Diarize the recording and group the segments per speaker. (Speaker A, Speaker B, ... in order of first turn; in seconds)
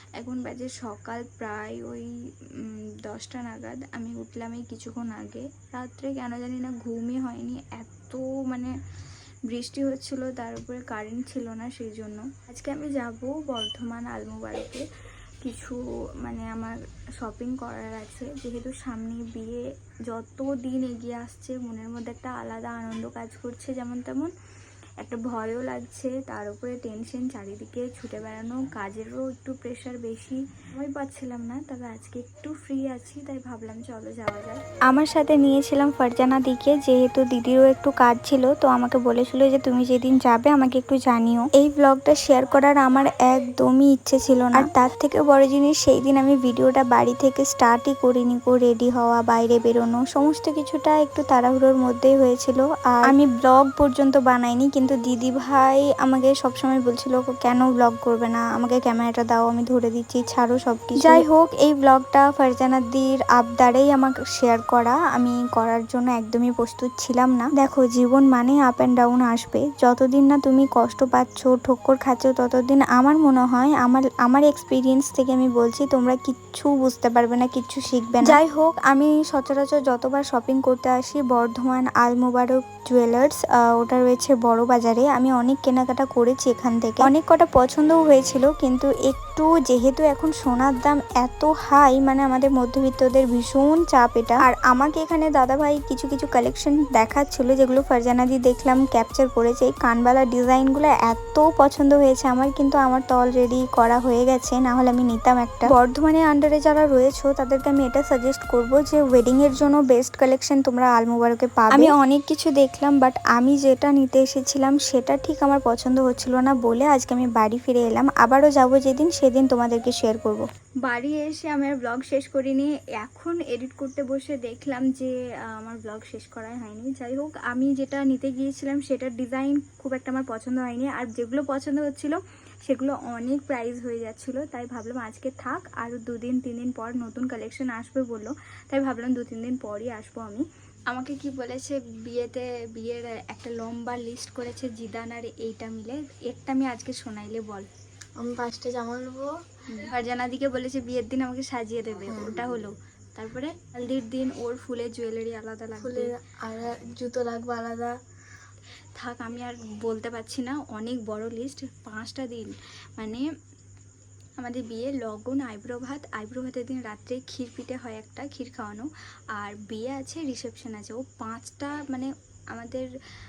Speaker A: 0.2-2.1, 2.6-8.7, 9.5-14.8, 15.4-24.3, 25.0-34.6, 43.8-44.6, 78.2-78.6, 111.7-112.0, 120.9-147.7, 149.7-156.1, 159.0-163.3, 164.4-172.9
Speaker B: 34.9-120.5
Speaker C: 61.0-61.2, 148.2-149.3, 152.1-152.3, 155.8-157.9